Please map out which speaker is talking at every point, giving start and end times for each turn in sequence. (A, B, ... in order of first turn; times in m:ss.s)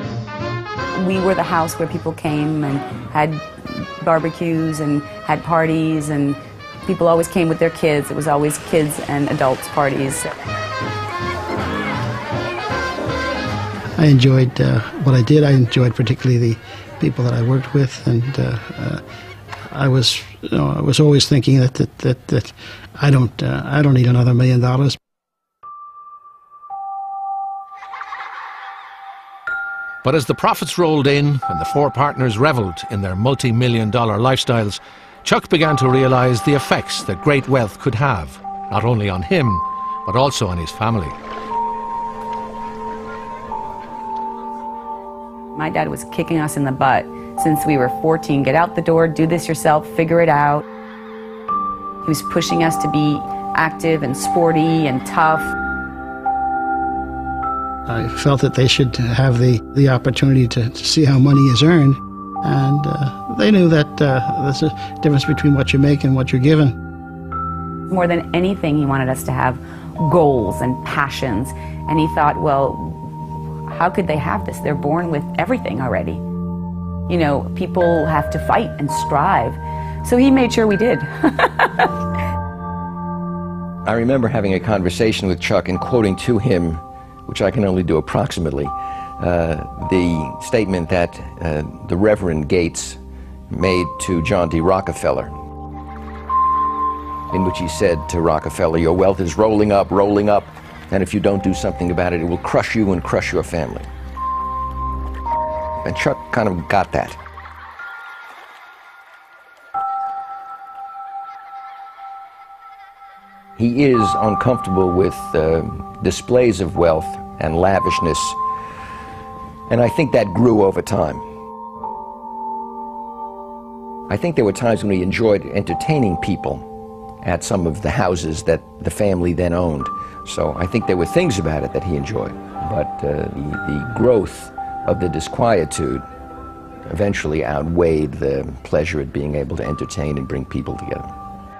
0:00.9-0:10.3 A
0:14.0-0:19.0 B
0:19.7-0:25.0 B
0:30.0-0:41.1 C
0:45.5-0:50.6 A
0:52.0-0:55.5 A
0:57.8-1:06.7 B
1:07.9-1:13.1 A
1:13.7-1:16.2 A
1:17.1-1:21.9 A
1:23.8-1:33.0 D
1:33.5-1:35.3 D
1:37.3-1:43.9 D
1:45.8-1:47.2 D
1:53.6-1:58.4 D
1:59.7-2:01.2 D
2:04.1-2:06.6 D
2:07.2-2:16.0 D
2:16.9-2:21.1 D